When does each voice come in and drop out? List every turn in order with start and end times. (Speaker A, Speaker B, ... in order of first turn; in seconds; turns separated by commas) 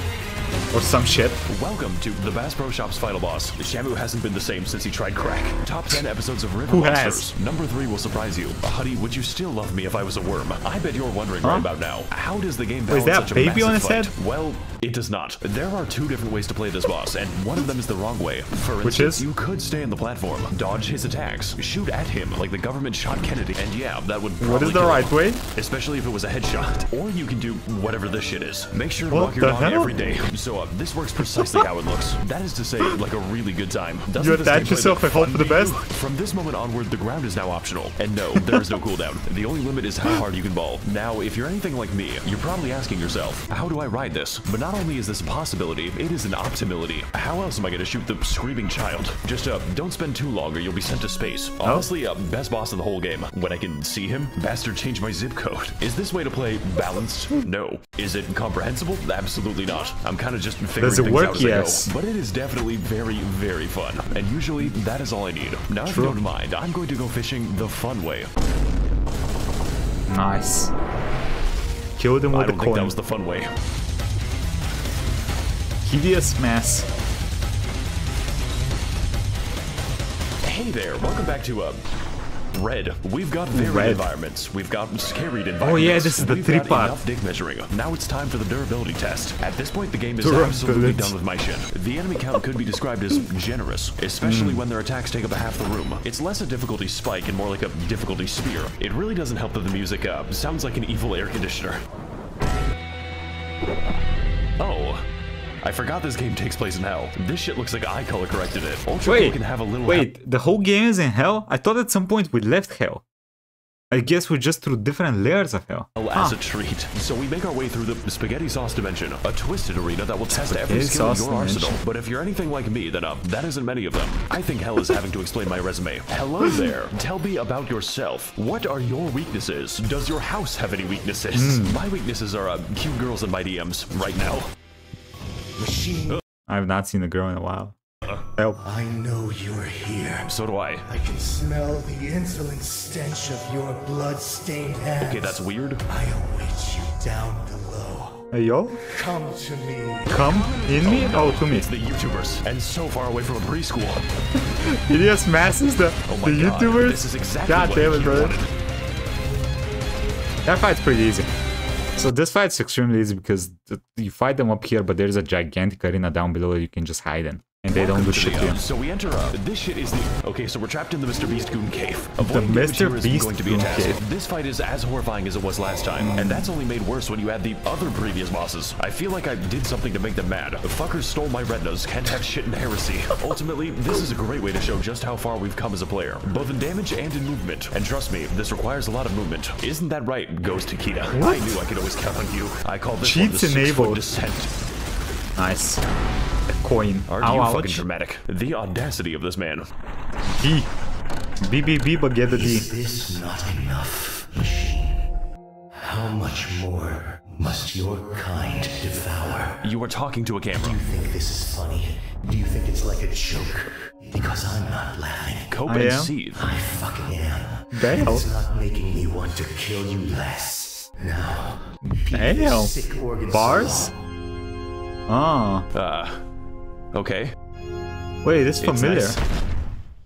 Speaker A: 0.7-1.4, Speaker B: 1.5-68.3, Speaker A: 6.7-7.3, Speaker A: 12.9-14.1, Speaker A: 18.8-19.3, Speaker A: 24.4-25.4, Speaker A: 29.1-29.9, Speaker A: 34.2-35.8, Speaker A: 60.8-61.9, Speaker A: 65.9-66.2, Speaker A: 70.1-70.7, Speaker A: 72.0-73.0, Speaker B: 72.3-73.5, Speaker A: 75.8-76.9, Speaker B: 80.4-81.8, Speaker B: 82.5-101.8, Speaker A: 83.5-84.0, Speaker A: 85.6-87.0, Speaker A: 90.2-91.1, Speaker A: 94.2-94.6, Speaker B: 104.6-105.0, Speaker B: 105.6-110.1, Speaker A: 109.1-109.4, Speaker A: 109.9-113.0, Speaker A: 113.9-116.4, Speaker B: 116.0-134.5, Speaker A: 120.3-121.8, Speaker A: 131.3-131.8, Speaker C: 135.6-136.2, Speaker A: 136.5-137.8, Speaker C: 138.6-140.3, Speaker B: 140.3-140.9, Speaker C: 140.9-148.3, Speaker B: 145.0-145.8, Speaker A: 148.3-148.8, Speaker C: 148.8-150.5, Speaker A: 150.1-151.7, Speaker B: 150.6-154.0, Speaker A: 154.7-158.3, Speaker B: 156.1-158.5, Speaker A: 160.5-161.3, Speaker A: 162.0-168.6, Speaker B: 167.7-194.5, Speaker A: 172.2-174.0, Speaker A: 176.0-176.5, Speaker A: 191.1-191.6, Speaker A: 193.0-194.0, Speaker A: 195.4-195.8, Speaker A: 196.5-197.8, Speaker B: 197.1-199.7, Speaker A: 200.4-200.7, Speaker A: 201.4-202.7, Speaker C: 202.3-205.1, Speaker C: 205.7-209.6, Speaker B: 209.6-210.8, Speaker C: 210.6-215.6, Speaker B: 215.5-216.5, Speaker A: 215.7-216.1, Speaker C: 216.3-224.0, Speaker A: 217.7-218.3, Speaker A: 222.1-222.7, Speaker A: 223.3-223.9, Speaker A: 225.1-225.7, Speaker B: 225.7-226.2, Speaker B: 226.9-227.3, Speaker A: 228.2-229.2, Speaker B: 228.6-229.2